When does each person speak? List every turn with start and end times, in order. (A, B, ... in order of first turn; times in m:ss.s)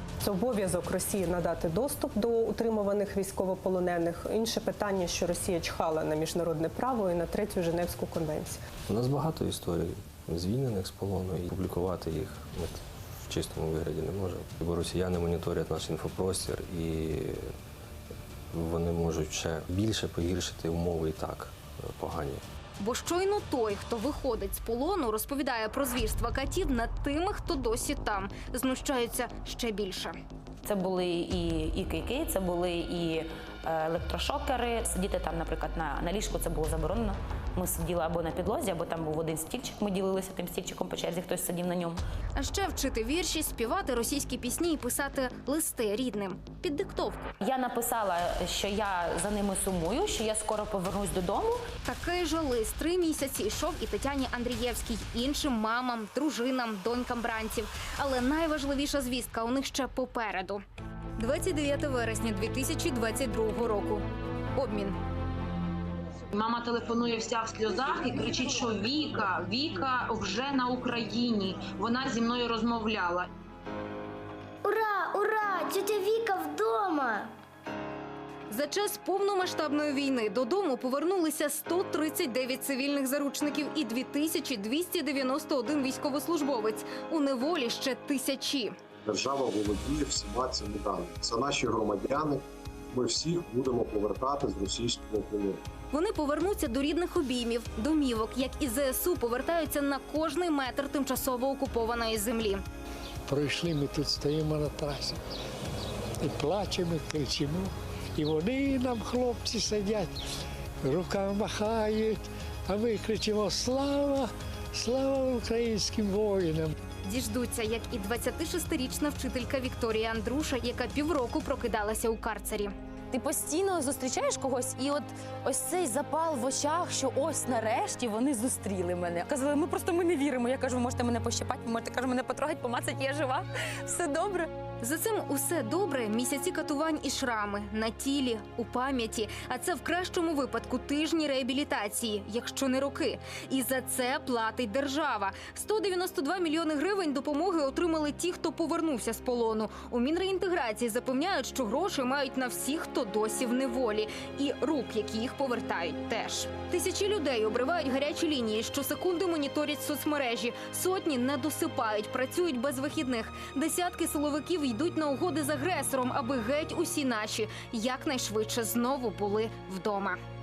0:00.2-0:08.6 A
0:08.9-0:17.5 B
0:18.5-0:22.4 B
0:22.8-0:30.1 C
0:30.6-0:42.0 D
0:42.4-0:47.3 C
0:47.4-0:51.6 D
0:51.8-1:00.6 C
1:01.2-1:04.0 C
1:04.5-1:05.0 C
1:06.3-1:13.3 E
1:14.6-1:17.3 F
1:18.5-1:28.7 C
1:29.0-1:35.6 G
1:35.9-1:42.6 C
1:43.3-1:45.2 H
1:46.2-1:50.1 H
1:50.8-1:56.7 H
1:57.0-2:02.7 C
2:03.1-2:14.5 D
2:14.8-2:50.2 C